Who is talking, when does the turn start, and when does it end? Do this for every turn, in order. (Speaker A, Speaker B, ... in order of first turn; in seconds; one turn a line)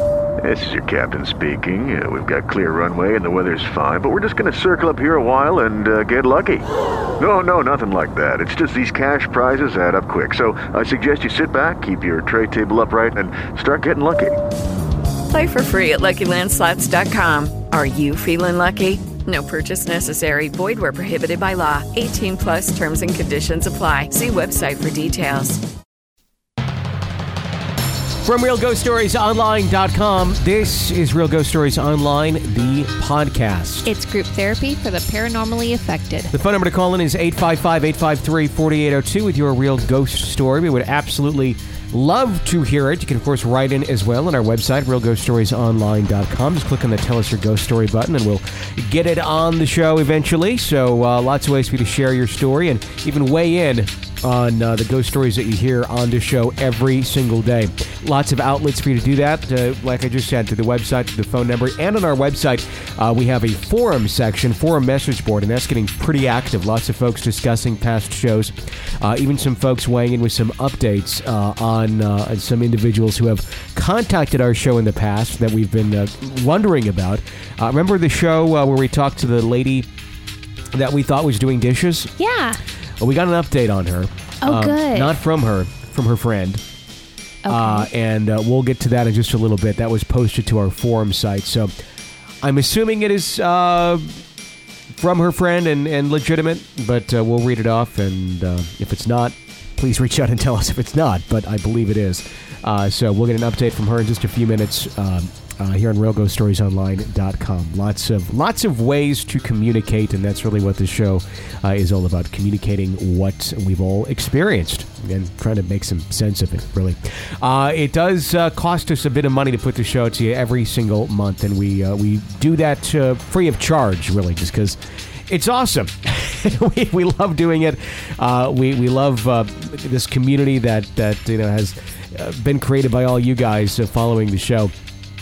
Speaker A: 0.4-6.7
Speaker A: 7.2-14.4
Speaker B: 15.3-25.6
Speaker C: 28.2-33.9
Speaker D: 33.8-36.3
Speaker C: 36.3-79.9
Speaker C: 80.7-82.1
Speaker D: 82.2-82.6
Speaker C: 83.0-86.6
Speaker D: 84.4-85.2
Speaker D: 87.4-87.9
Speaker C: 87.5-91.7
Speaker C: 92.4-94.2
Speaker C: 94.9-134.7